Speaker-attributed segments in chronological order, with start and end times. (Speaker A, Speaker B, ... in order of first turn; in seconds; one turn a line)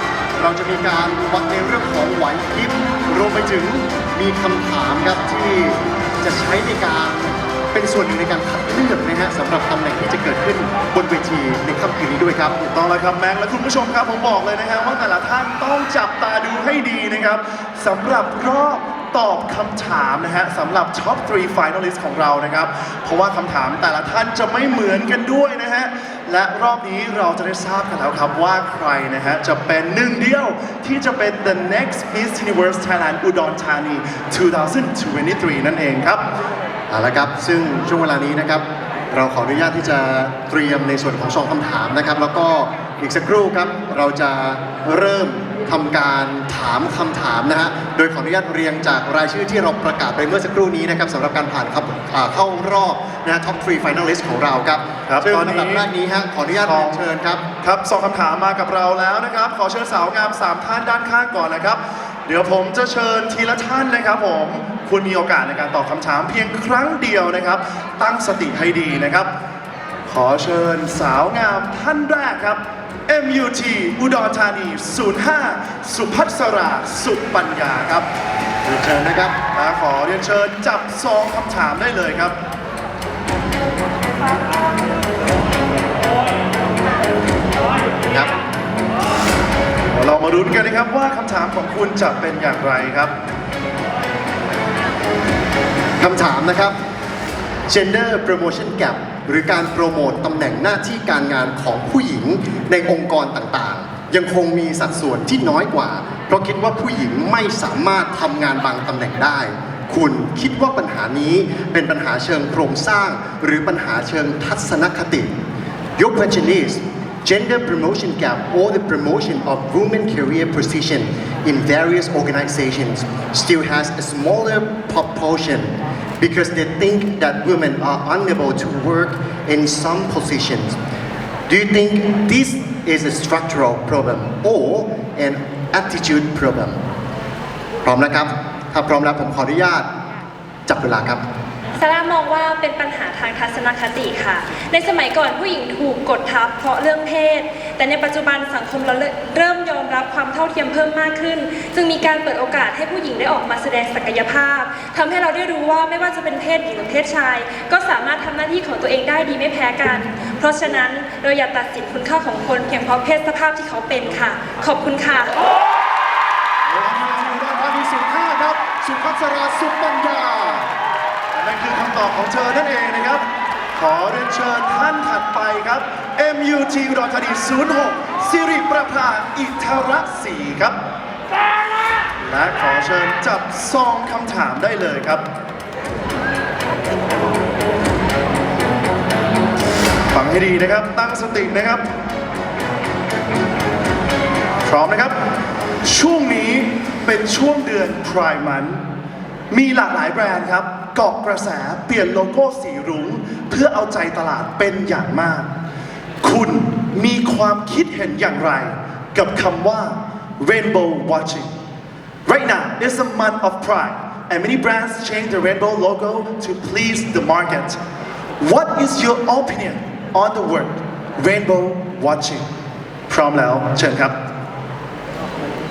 Speaker A: 0.4-12.6
Speaker B: 12.6-36.2
Speaker A: 36.9-57.4
Speaker B: 55.1-55.9
Speaker B: 56.5-57.0
Speaker B: 57.6-69.3
Speaker B: 70.1-78.1
Speaker A: 78.6-79.3
Speaker B: 79.5-82.3
Speaker A: 88.1-88.3
Speaker B: 89.9-93.1
Speaker A: 96.0-96.7
Speaker A: 97.7-115.3
Speaker A: 116.0-130.8
Speaker A: 131.5-136.8
Speaker A: 137.8-139.9
Speaker A: 140.7-141.2
Speaker C: 141.8-165.4
Speaker A: 166.7-170.7
Speaker B: 171.3-173.2
Speaker B: 173.7-180.8
Speaker B: 182.2-185.2
Speaker B: 190.1-191.8
Speaker B: 194.7-195.1
Speaker B: 195.8-198.8
Speaker B: 199.5-205.5
Speaker B: 206.2-211.5
Speaker B: 212.2-217.8
Speaker B: 218.4-222.4
Speaker B: 223.1-224.1